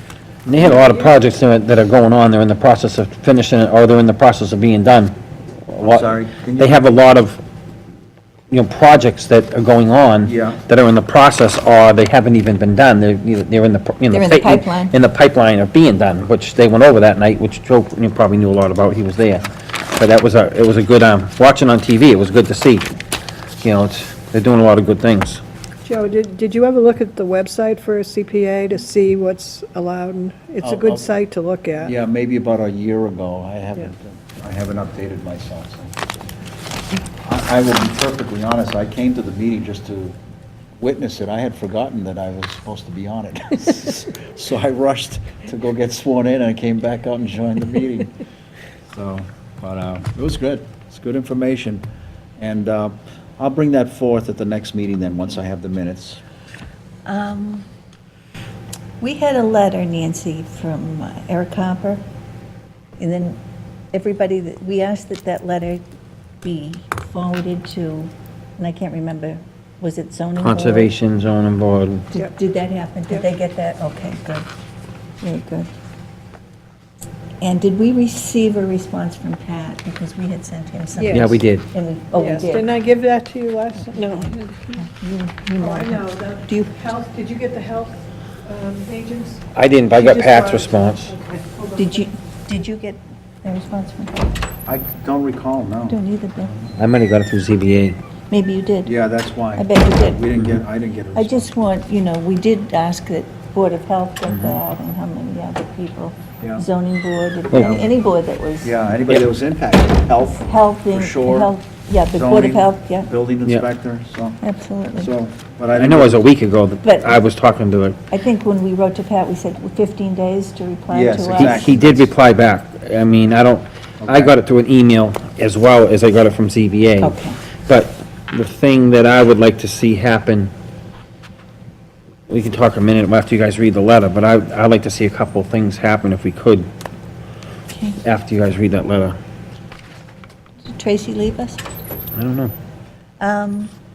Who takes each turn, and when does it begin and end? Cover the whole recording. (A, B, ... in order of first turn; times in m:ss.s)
0:00.5-0:05.2 A
0:00.6-0:01.1 B
0:05.7-0:07.4 A
0:05.8-0:07.0 B
0:08.5-0:22.9 A
0:10.2-0:10.6 B
0:14.1-0:15.0 C
0:23.6-0:25.4 A
0:25.8-0:31.9 D
0:30.6-0:31.1 B
0:31.8-0:36.0 B
0:37.2-0:40.2 B
0:40.8-0:48.2 B
0:48.9-0:51.8 B
0:52.4-0:56.2 B
0:57.1-0:57.6 C
0:59.0-1:02.0 C
1:03.0-1:03.4 C
1:03.9-1:05.8 C
1:06.4-1:10.9 C
1:10.4-1:12.1 A
1:12.1-1:14.5 C
1:15.2-1:15.7 C
1:17.4-1:22.7 C
1:21.0-1:21.3 D
1:21.1-1:21.7 A
1:22.2-1:24.8 D
1:23.8-1:26.7 C
1:25.6-1:32.1 D
1:29.5-1:31.1 A
1:31.8-1:34.4 C
1:34.7-1:36.0 B
1:35.9-1:36.6 C
1:36.8-1:38.0 A
1:38.3-1:39.0 C
1:38.8-1:41.5 B
1:39.6-1:40.2 C
1:41.1-1:48.7 C
1:46.4-1:46.7 B
1:47.5-1:47.9 A
1:47.5-1:47.9 B
1:48.6-1:51.6 B
1:50.4-1:53.1 C
1:52.1-1:54.4 B
1:54.4-1:55.1 C
1:55.0-1:56.3 B
1:55.7-1:58.0 A
1:56.8-1:57.2 C
1:58.1-2:02.0 C
2:00.9-2:02.1 B
2:01.3-2:10.5 A
2:04.0-2:04.4 B
2:07.0-2:07.4 C
2:12.3-2:16.7 A
2:17.7-2:18.0 C
2:18.0-2:19.2 A
2:20.7-2:21.6 C
2:22.2-2:22.5 A
2:23.2-2:23.7 C